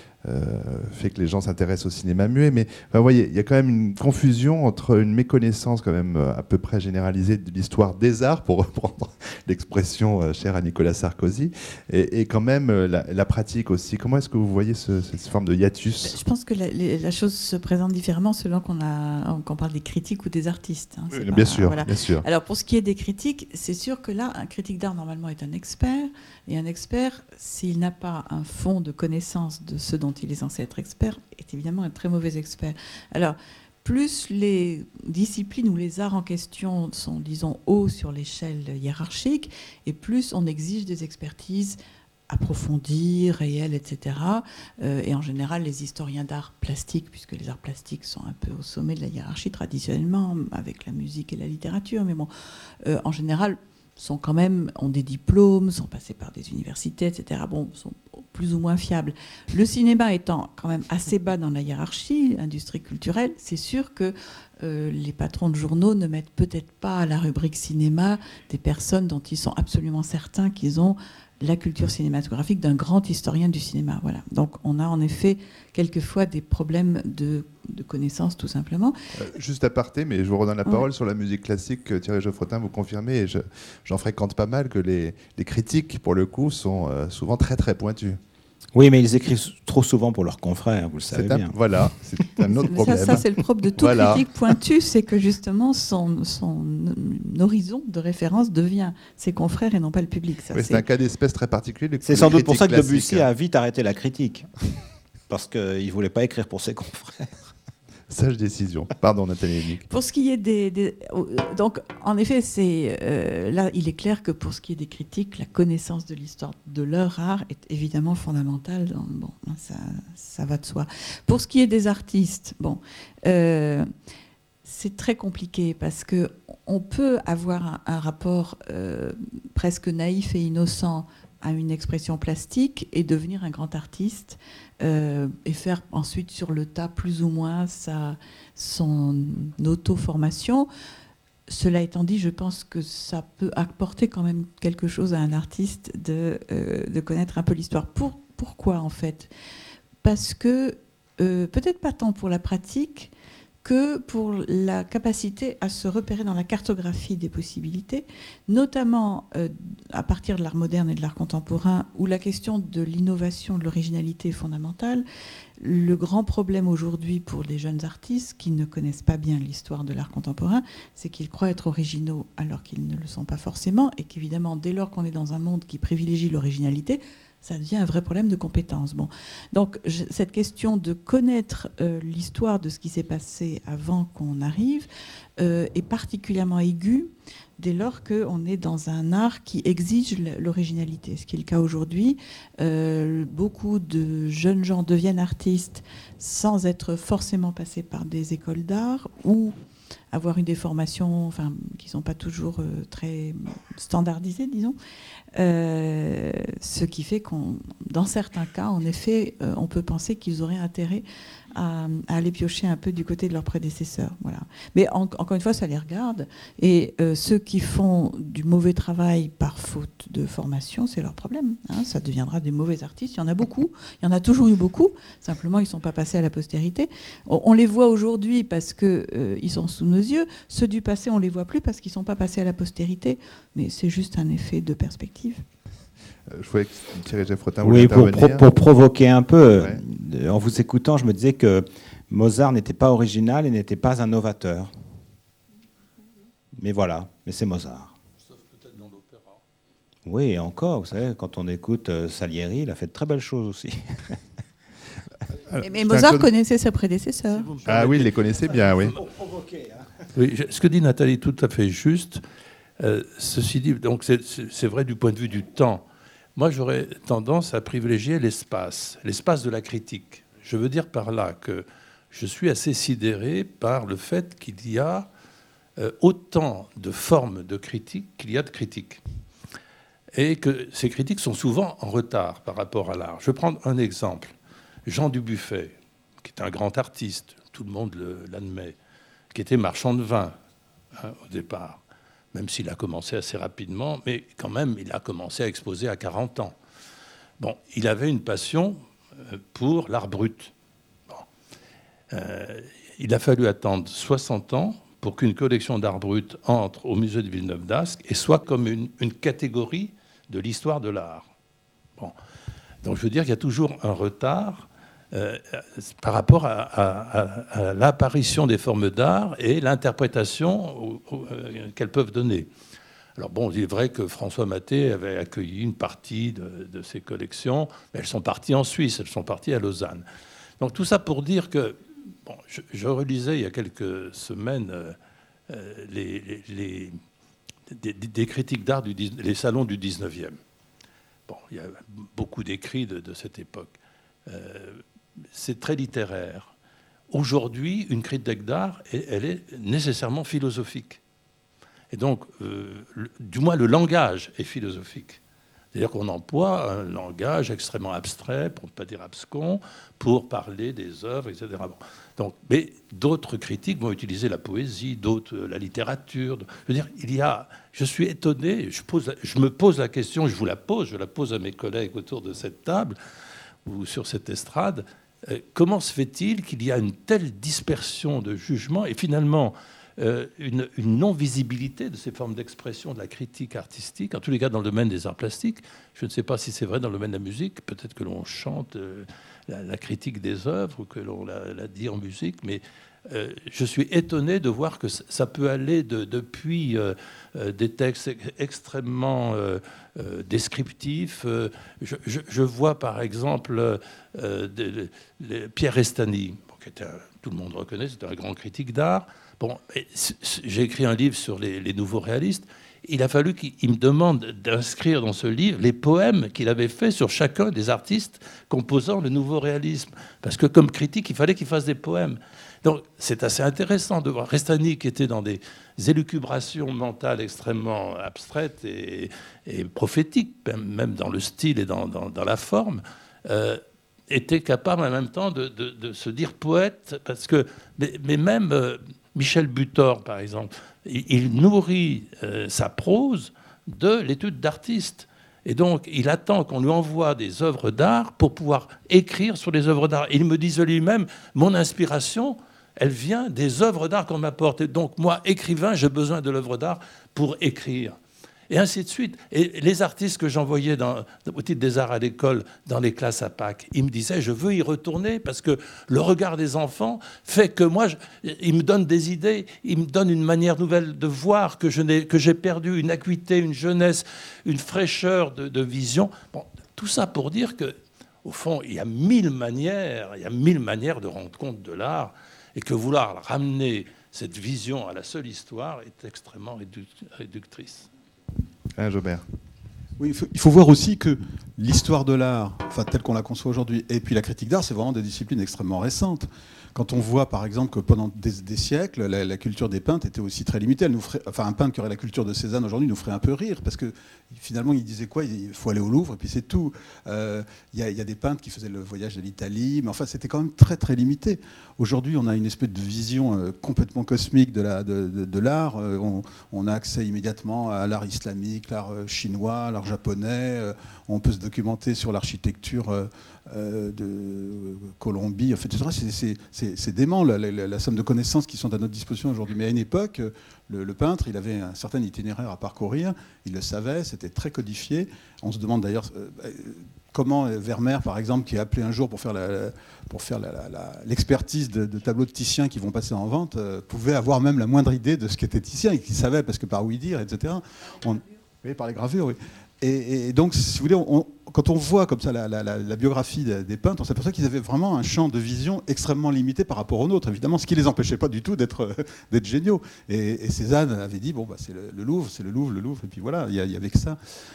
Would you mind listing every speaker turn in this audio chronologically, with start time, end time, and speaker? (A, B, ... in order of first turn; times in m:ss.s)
0:00.2-0:16.2 A
0:16.0-0:41.8 B
0:21.1-0:22.2 A
0:42.3-0:52.3 B
0:52.8-1:19.0 B
1:19.2-1:28.2 A
1:28.7-1:31.6 C
1:31.1-1:34.2 A
1:32.7-1:40.8 B
1:40.5-1:43.3 A
1:42.0-1:44.5 C
1:45.3-1:47.5 C
1:48.1-1:49.9 A
1:49.9-2:03.9 B
2:04.6-2:20.7 B
2:21.5-2:29.3 B
2:30.0-2:33.1 B
2:33.6-2:45.0 B
2:45.6-3:19.6 B
3:20.1-3:24.8 B
3:25.4-3:55.4 B
3:56.3-3:58.5 A
3:57.6-4:04.7 C
3:59.5-3:59.8 A
4:06.6-4:07.9 C
4:08.3-4:09.4 D
4:10.0-4:14.2 C
4:15.5-4:16.3 A
4:15.6-4:17.6 B
4:17.6-4:19.0 A
4:17.8-4:18.1 D
4:20.1-4:22.2 D
4:22.8-4:25.8 D
4:26.4-4:35.1 D
4:35.8-4:39.0 D
4:40.1-4:44.3 D
4:44.9-4:48.7 D
4:49.3-4:50.3 D
4:50.9-4:51.8 D
4:52.3-4:56.6 D
4:57.4-5:00.5 D
5:02.1-5:11.3 D
5:12.8-5:22.5 D
5:23.2-5:30.0 D
5:30.6-5:35.0 D
5:35.5-5:37.0 D
5:37.7-5:40.4 D
5:41.3-5:44.8 D
5:45.3-5:46.5 D
5:47.1-5:51.0 D
5:51.9-5:55.2 D
5:55.7-6:13.0 D
6:13.6-7:37.9 D
7:38.5-8:07.9 D
8:08.8-8:09.2 A
8:10.0-9:24.2 E